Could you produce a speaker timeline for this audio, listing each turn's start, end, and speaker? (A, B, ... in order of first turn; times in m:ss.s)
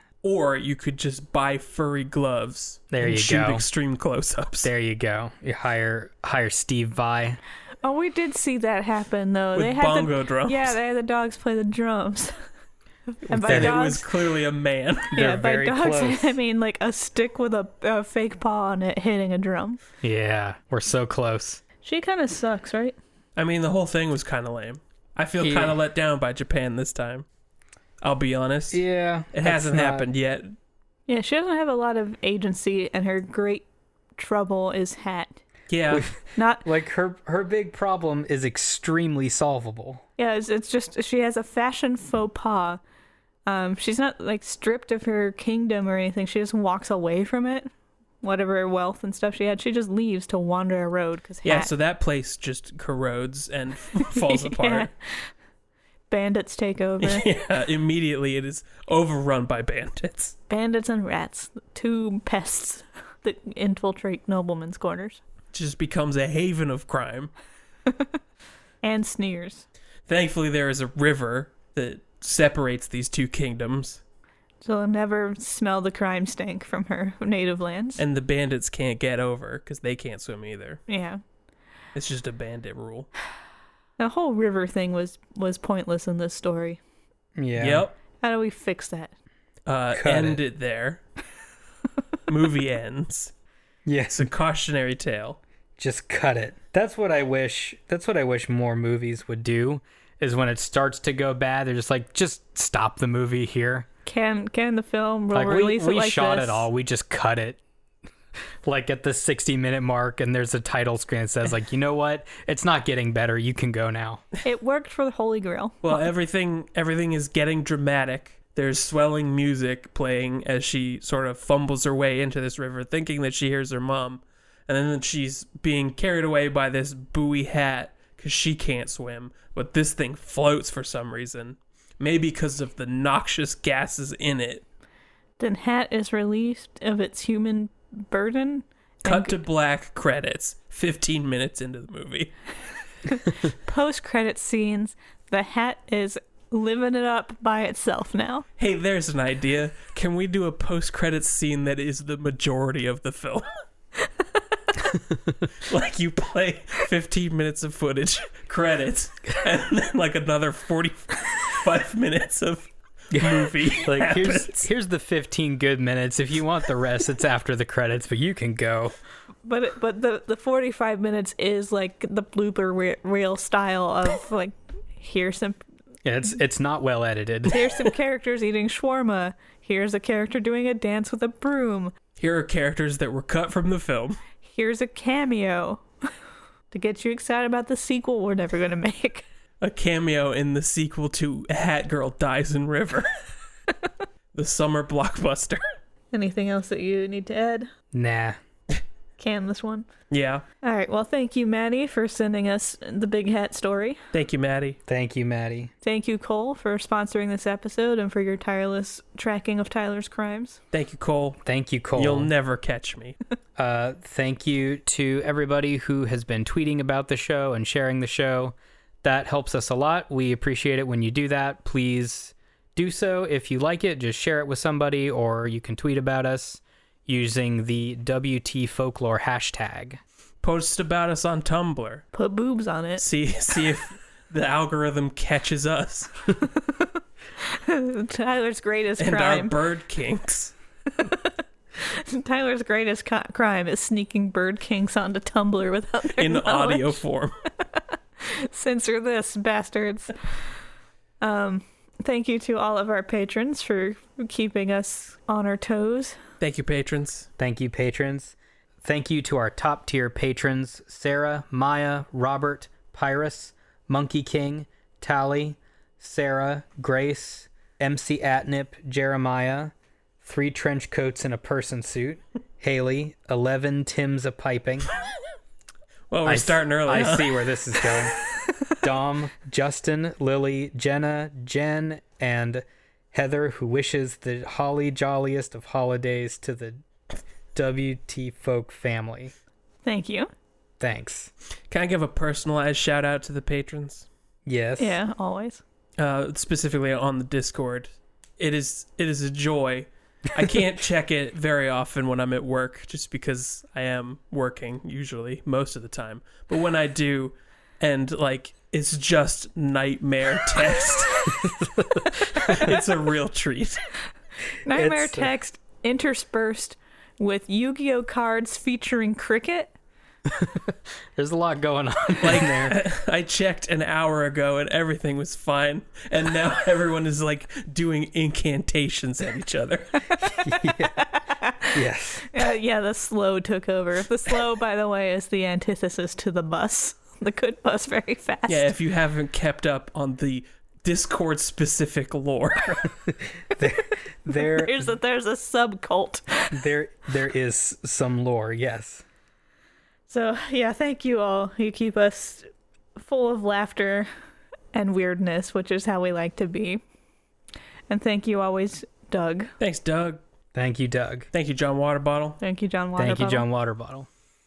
0:00.2-0:04.7 A
0:02.9-0:03.6 B
0:04.6-0:07.4 B
0:07.8-0:12.3 C
0:09.6-0:10.8 A
0:13.2-0:14.1 C
0:13.3-0:13.8 B
0:13.4-0:15.1 A
0:15.1-0:16.4 B
0:15.1-0:19.8 C
0:20.0-0:21.6 B
0:21.8-0:23.0 C
0:23.4-0:27.2 A
0:25.4-0:25.8 B
0:28.0-0:30.5 A
0:28.7-0:30.1 B
0:31.1-0:35.4 C
0:35.7-0:36.1 A
0:35.9-0:40.0 B
0:36.4-0:36.7 C
0:40.2-0:42.8 C
0:43.4-0:47.7 C
0:48.2-0:51.7 C
0:51.4-0:54.9 A
0:54.1-0:55.3 C
0:56.1-0:57.3 C
0:57.0-1:00.3 A
1:00.5-1:05.2 C
1:05.5-1:07.3 A
1:08.8-1:09.6 C
1:10.1-1:14.0 A
1:14.6-1:18.0 C
1:18.0-1:20.8 A
1:20.9-1:21.2 C
1:21.9-1:23.1 A
1:24.0-1:26.8 C
1:27.4-1:27.9 B
1:27.6-1:27.9 A
1:28.2-1:29.1 C
1:29.6-1:31.0 A
1:29.9-1:30.4 B
1:32.3-1:33.3 A
1:33.9-1:34.3 B
1:34.1-1:35.4 A
1:35.8-1:43.9 B
1:44.0-1:46.7 C
1:45.3-1:47.6 B
1:48.6-1:54.2 B
1:54.4-1:56.0 C
1:55.8-2:14.6 A
2:15.4-2:19.4 C
2:19.0-2:22.3 A
2:23.1-2:28.4 C
2:28.6-2:33.5 A
2:35.6-2:44.7 A
2:43.1-2:49.0 B
2:49.4-2:55.6 C
2:56.0-2:57.6 B
2:57.5-3:01.9 C
3:02.2-3:04.2 A
3:04.4-3:05.9 C
3:06.7-3:09.2 C
3:09.6-3:13.1 A
3:14.3-3:15.6 A
3:16.1-3:17.7 C
3:17.9-3:18.4 B
3:19.2-3:19.9 C
3:20.1-3:20.4 A
3:20.6-3:24.0 C
3:24.1-3:24.8 A
3:24.9-3:25.7 B
3:25.8-3:30.6 C
3:30.7-3:31.4 A
3:31.4-3:32.3 B
3:32.0-3:33.2 A
3:33.6-3:50.0 B
3:50.4-3:52.0 A
3:52.1-3:53.0 C
3:53.0-3:56.2 A
3:57.4-3:59.6 C
3:59.0-4:00.5 A
4:01.0-4:07.0 C
4:06.2-4:07.3 A
4:08.2-4:10.1 C
4:11.2-4:16.2 C
4:16.4-4:17.3 A
4:17.4-4:34.9 B
4:36.1-4:38.0 A
4:36.2-4:38.2 B
4:38.8-4:46.8 B
4:47.6-4:49.3 B
4:49.8-4:50.3 C
4:50.8-4:51.3 B
4:51.7-4:54.1 A
4:54.4-4:55.0 B
4:54.8-4:55.6 C
4:56.0-5:11.5 A
5:11.4-5:12.7 B
5:12.4-5:13.8 A
5:14.6-5:19.7 C
5:14.7-5:15.3 B
5:20.2-5:22.8 B
5:22.2-5:30.2 A
5:30.4-5:31.0 B
5:30.8-5:38.7 C
5:31.7-5:32.3 B
5:38.5-5:42.9 A
5:43.5-5:44.8 B
5:44.3-5:46.5 C
5:46.5-5:49.0 B
5:50.1-5:54.1 C
5:54.7-5:56.8 C
5:57.9-5:59.5 C
5:59.6-6:00.2 A
6:00.5-6:01.3 B
6:01.3-6:02.4 A
6:02.4-6:03.5 C
6:03.0-6:04.1 B